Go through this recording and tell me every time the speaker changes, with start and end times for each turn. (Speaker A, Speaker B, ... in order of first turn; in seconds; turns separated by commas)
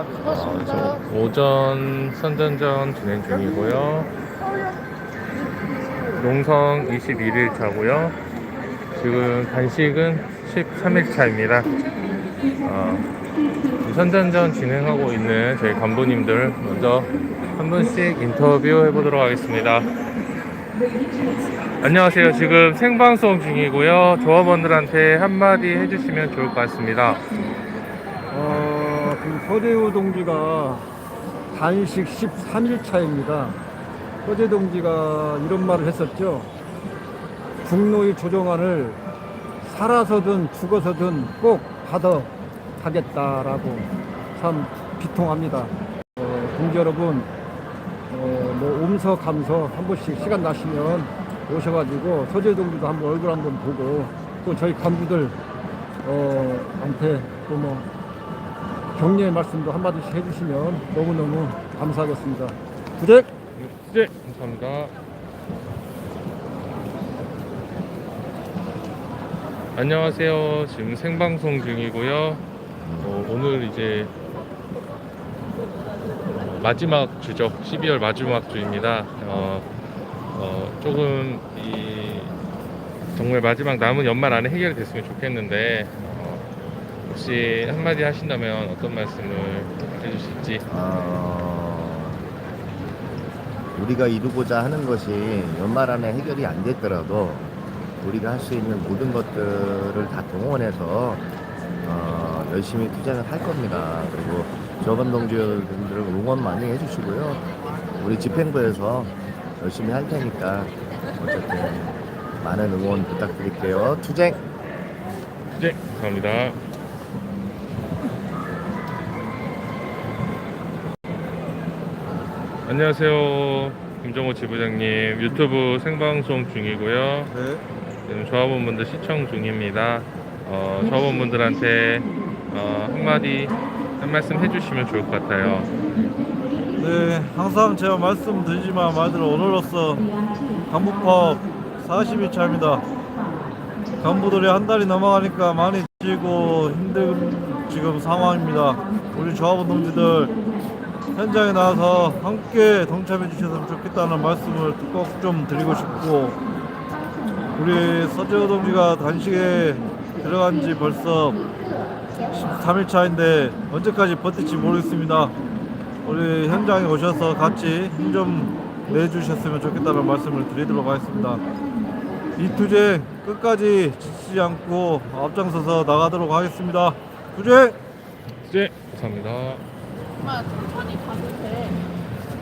Speaker A: 0.2-1.0, Speaker B: 0.3-4.1, Speaker B: 6.1-8.2, Speaker B: 8.9-11.7, Speaker B: 12.6-13.1, Speaker B: 13.8-19.9, Speaker B: 21.8-27.2, Speaker C: 28.3-30.9, Speaker C: 31.5-33.6, Speaker C: 34.2-36.5, Speaker C: 37.6-39.0, Speaker C: 39.6-47.3, Speaker C: 48.1-55.4, Speaker C: 56.0-57.9, Speaker C: 58.9-63.3, Speaker B: 63.6-64.9, Speaker B: 69.7-72.4, Speaker A: 72.8-73.1, Speaker B: 73.0-74.1, Speaker B: 76.4-79.7, Speaker B: 80.3-82.3, Speaker B: 83.1-86.5, Speaker B: 87.1-90.6, Speaker A: 90.7-92.2, Speaker A: 93.7-97.5, Speaker A: 98.0-101.2, Speaker A: 101.8-107.5, Speaker A: 108.0-114.4, Speaker B: 115.5-116.6, Speaker B: 122.7-127.3, Speaker D: 127.3-127.6, Speaker B: 128.1-135.7, Speaker D: 136.8-140.1, Speaker D: 140.7-142.8, Speaker D: 144.0-150.3, Speaker D: 151.1-156.4, Speaker D: 157.6-161.4, Speaker D: 162.3-165.3, Speaker D: 166.0-171.4, Speaker D: 172.4-177.8, Speaker B: 178.4-179.6